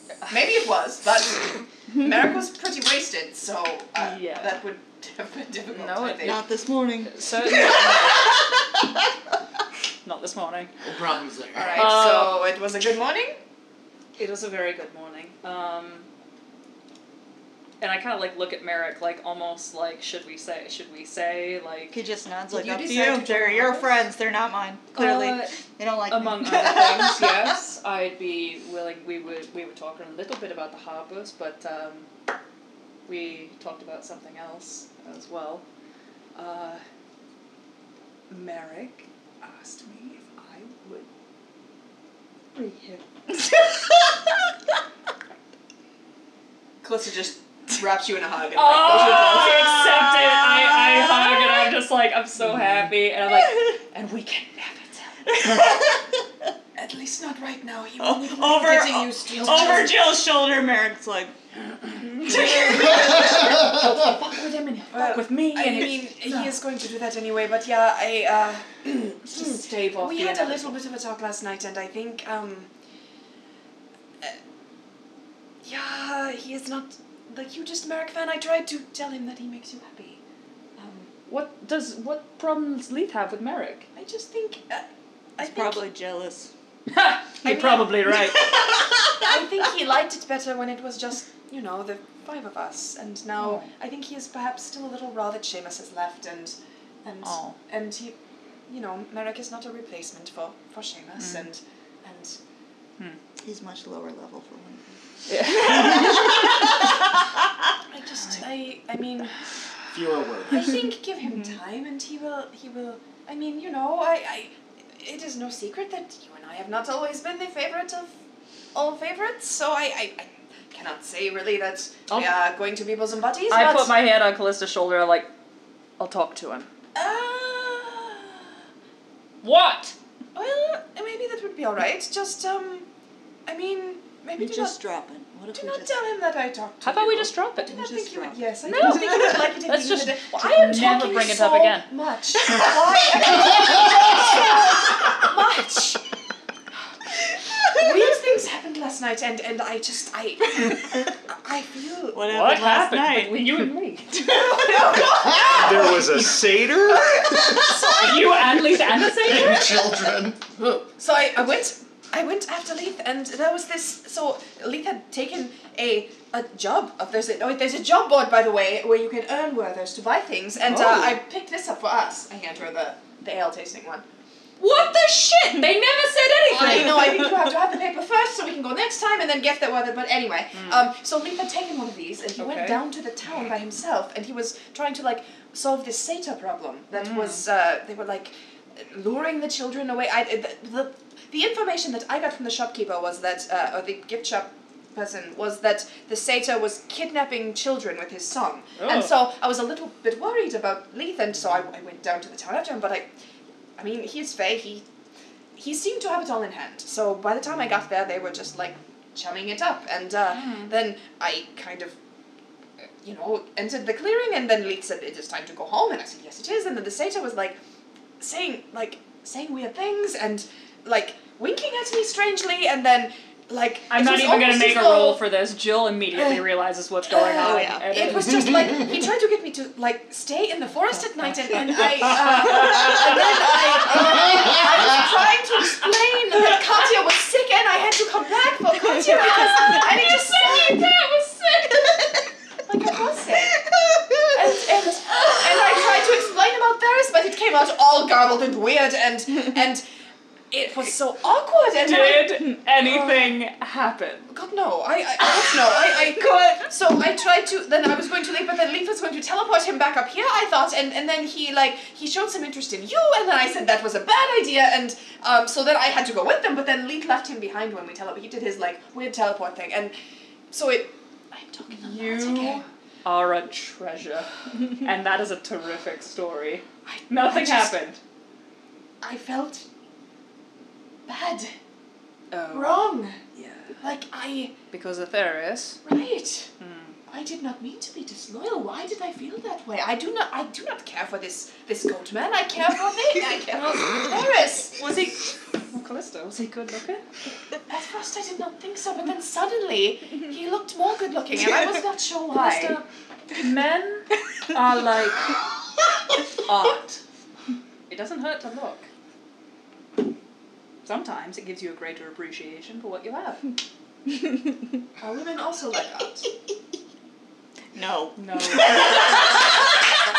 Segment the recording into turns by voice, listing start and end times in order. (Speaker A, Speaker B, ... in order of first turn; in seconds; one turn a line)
Speaker A: 0.3-6.4
Speaker B: 4.0-4.6
Speaker B: 5.7-6.5
Speaker C: 6.2-9.0
Speaker B: 7.0-8.4
Speaker B: 10.0-10.7
Speaker D: 10.8-11.9
Speaker A: 11.5-13.3
Speaker B: 11.7-12.4
Speaker B: 14.2-16.1
Speaker B: 17.8-22.0
Speaker C: 21.9-27.5
Speaker B: 22.5-23.9
Speaker B: 24.9-32.1
Speaker B: 33.1-35.6
Speaker B: 36.3-36.8
Speaker B: 38.3-41.1
Speaker B: 42.5-43.4
Speaker A: 46.8-49.8
Speaker B: 48.5-55.5
Speaker C: 49.1-51.7
Speaker C: 53.3-53.7
Speaker C: 55.3-56.2
Speaker A: 56.7-60.0
Speaker C: 58.0-61.4
Speaker B: 62.0-66.6
Speaker C: 62.2-63.3
Speaker A: 62.3-63.4
Speaker A: 64.9-72.7
Speaker B: 69.2-70.8
Speaker A: 75.6-80.2
Speaker A: 80.8-81.1
Speaker B: 81.3-83.9
Speaker A: 83.9-85.8
Speaker C: 85.4-86.5
Speaker B: 86.9-88.5
Speaker A: 87.4-88.0
Speaker C: 88.3-89.4
Speaker A: 89.1-98.2
Speaker B: 93.4-93.7
Speaker B: 97.2-97.6
Speaker A: 98.7-102.4
Speaker B: 101.2-101.5
Speaker C: 103.4-106.5
Speaker B: 105.3-106.3
Speaker A: 105.7-106.1
Speaker A: 107.9-109.3
Speaker D: 109.9-110.7
Speaker A: 110.5-118.1
Speaker C: 111.2-111.6
Speaker A: 118.7-123.9
Speaker B: 122.1-122.4
Speaker B: 123.5-125.3
Speaker B: 126.0-126.7
Speaker A: 126.9-128.4
Speaker B: 129.4-129.9
Speaker A: 130.3-132.8
Speaker A: 133.5-134.8
Speaker C: 134.4-135.9
Speaker A: 135.5-146.0
Speaker B: 136.8-137.8
Speaker C: 137.6-139.4
Speaker B: 138.6-141.9
Speaker C: 142.5-143.3
Speaker A: 147.7-152.2
Speaker C: 152.1-153.6
Speaker B: 152.3-154.2
Speaker A: 154.1-156.4
Speaker C: 154.2-155.1
Speaker D: 155.2-155.9
Speaker E: 155.5-157.6
Speaker A: 156.9-158.3
Speaker C: 157.2-157.5
Speaker B: 157.5-159.9
Speaker D: 159.1-160.8
Speaker A: 160.9-174.0
Speaker B: 170.7-171.2
Speaker B: 174.6-177.3
Speaker A: 176.5-203.1
Speaker B: 180.5-180.8
Speaker B: 182.4-182.8
Speaker B: 186.9-187.4
Speaker B: 198.8-199.1
Speaker A: 203.8-204.8
Speaker A: 205.6-211.9
Speaker B: 210.3-210.7
Speaker A: 213.0-217.6
Speaker A: 218.2-225.2
Speaker B: 223.9-228.4
Speaker C: 227.1-228.0
Speaker A: 227.4-242.1
Speaker B: 230.9-233.2
Speaker C: 231.7-234.0
Speaker C: 238.8-240.4
Speaker A: 242.6-243.6
Speaker C: 243.6-244.7
Speaker A: 244.3-249.8
Speaker C: 245.3-245.6
Speaker A: 250.5-253.3
Speaker B: 251.8-254.3
Speaker A: 254.3-269.9
Speaker A: 270.5-272.6
Speaker B: 271.7-278.0
Speaker A: 276.9-277.9
Speaker A: 279.0-279.6
Speaker A: 281.1-281.5
Speaker B: 282.3-283.8
Speaker A: 282.5-283.2
Speaker A: 283.8-284.5
Speaker B: 284.7-285.8
Speaker A: 285.8-286.5
Speaker B: 286.6-286.9
Speaker A: 287.1-294.9
Speaker B: 294.8-295.2
Speaker B: 295.7-297.0
Speaker A: 297.7-302.8
Speaker B: 302.3-305.3
Speaker B: 306.4-307.0
Speaker B: 307.9-308.9
Speaker B: 310.8-313.4
Speaker A: 315.0-316.3
Speaker C: 317.7-319.5
Speaker B: 318.2-319.4